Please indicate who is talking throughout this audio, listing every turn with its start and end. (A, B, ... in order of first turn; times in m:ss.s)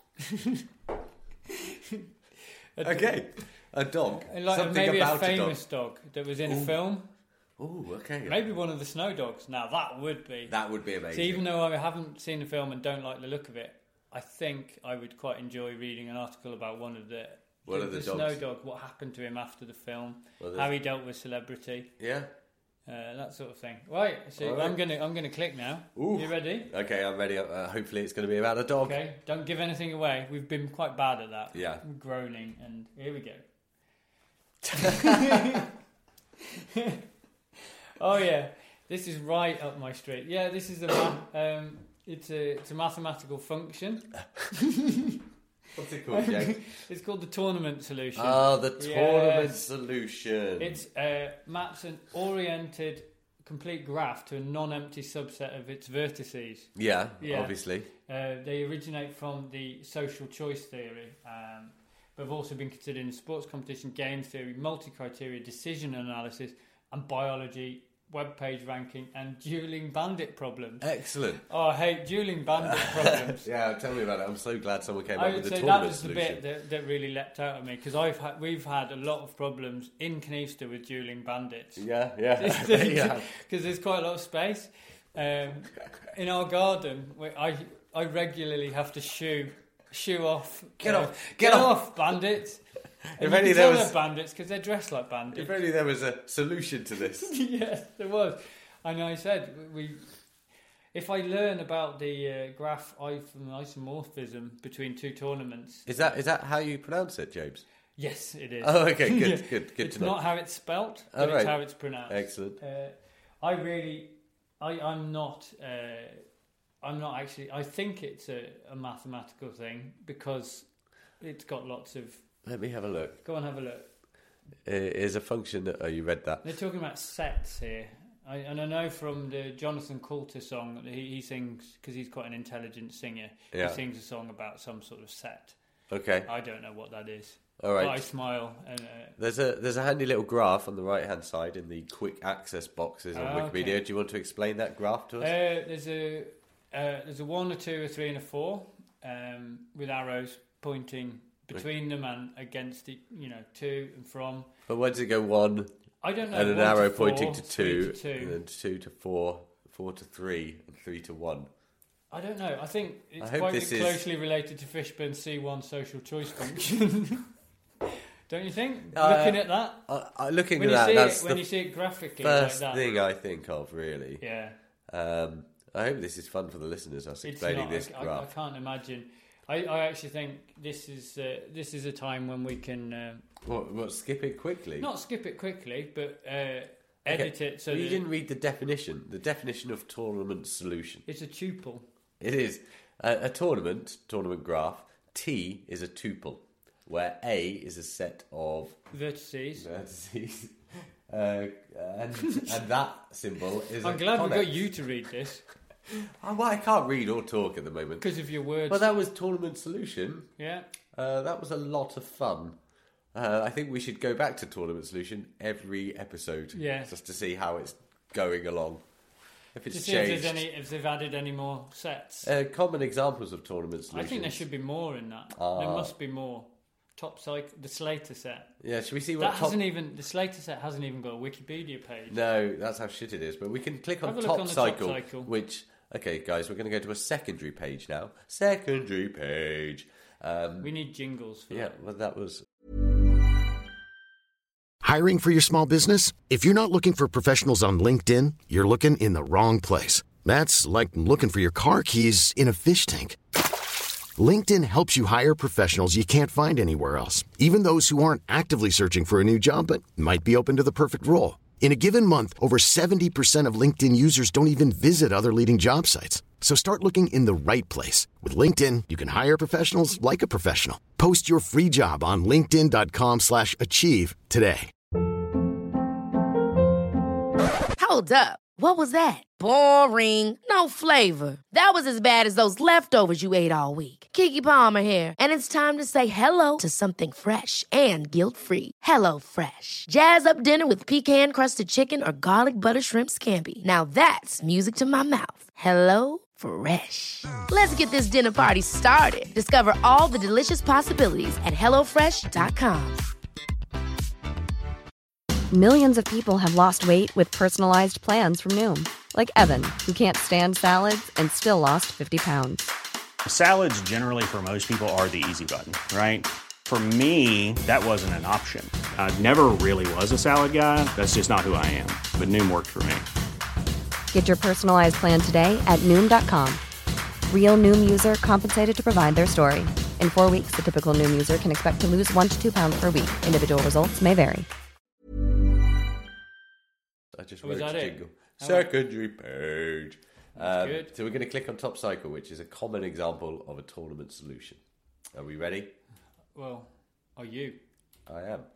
0:00.3-0:00.6 A
0:01.5-0:02.1 A
0:02.8-0:03.2 A
0:02.8-0:05.6 B
0:04.1-0:07.1 A
0:06.4-0:06.8 B
0:07.6-0:08.4 B
0:08.2-0:10.5 A
0:10.5-0:11.4 B
0:11.1-0:21.9 A
0:17.7-0:18.4 B
0:20.4-0:20.7 B
0:22.0-0:22.3 B
0:22.9-0:26.7 A
0:24.4-0:24.8 B
0:26.0-0:29.0 B
0:28.8-0:33.4 A
0:31.5-0:31.8 B
0:34.7-0:35.7 A
0:36.7-0:37.0 A
0:38.0-0:45.2 A
0:45.7-0:46.6 B
0:46.1-0:49.6 A
0:48.2-0:50.8 B
0:50.6-1:10.8 A
0:56.8-0:57.9 B
1:10.8-1:11.4 B
1:11.4-1:13.5 A
1:12.6-1:16.4 B
1:15.1-1:21.8 A
1:21.8-1:23.3 B
1:22.4-1:32.6 A
1:30.8-1:32.0 B
1:33.1-1:34.0 B
1:33.2-1:35.6 A
1:35.3-1:37.3 B
1:37.2-1:40.0 A
1:40.9-1:46.2 A
1:45.8-1:47.6 B
1:48.0-1:56.2 A
1:48.6-1:50.2 B
1:51.1-1:52.6 B
1:56.8-2:00.7 A
2:01.2-2:02.2 A
2:02.4-2:03.2 B
2:03.2-2:03.9 A
2:04.6-2:06.4 B
2:06.4-2:15.6 A
2:13.5-2:13.8 B
2:15.9-2:16.3 B
2:16.2-2:19.2 A
2:17.6-2:18.0 B
2:19.2-2:25.3 B
2:23.1-2:23.8 A
2:25.2-2:34.5 A
2:34.7-2:35.7 B
2:36.0-2:38.4 A
2:36.3-2:41.5 B
2:42.1-2:47.3 A
2:43.2-2:44.0 B
2:48.3-2:49.8 A
2:48.9-2:51.5 B
2:50.6-2:52.8 A
2:52.2-2:54.2 B
2:54.2-2:54.5 A
2:54.9-2:58.3 B
2:57.2-3:03.2 A
3:03.4-3:04.9 B
3:04.8-3:08.0 A
3:07.0-3:11.0 B
3:11.0-3:11.8 A
3:12.2-3:18.8 B
3:18.9-3:19.6 A
3:19.6-3:24.7 B
3:23.8-3:25.4 A
3:25.9-3:28.1 B
3:28.0-3:28.8 A
3:28.7-3:30.3 B
3:30.4-3:30.7 A
3:30.9-3:32.6 B
3:33.1-3:38.8 B
3:36.5-3:36.9 A
3:39.5-3:40.4 B
3:39.7-3:42.3 A
3:42.2-3:44.4 B
3:43.9-3:48.5 A
3:45.4-3:45.9 B
3:48.6-3:49.6 B
3:49.2-3:52.2 A
3:52.1-4:00.7 B
3:54.0-3:55.3 A
4:00.6-4:01.7 A
4:01.5-4:02.4 B
4:04.8-4:13.2 C
4:14.2-4:34.7 C
4:37.8-5:03.0 D
5:05.5-5:12.7 E
5:13.2-5:23.1 F
5:24.1-5:26.6 E
5:27.3-5:34.5 E
5:37.1-5:44.6 B
5:37.4-5:38.7 A
5:40.4-5:40.9 A
5:45.1-5:45.7 B
5:46.3-5:47.6 A
5:48.1-5:48.5 B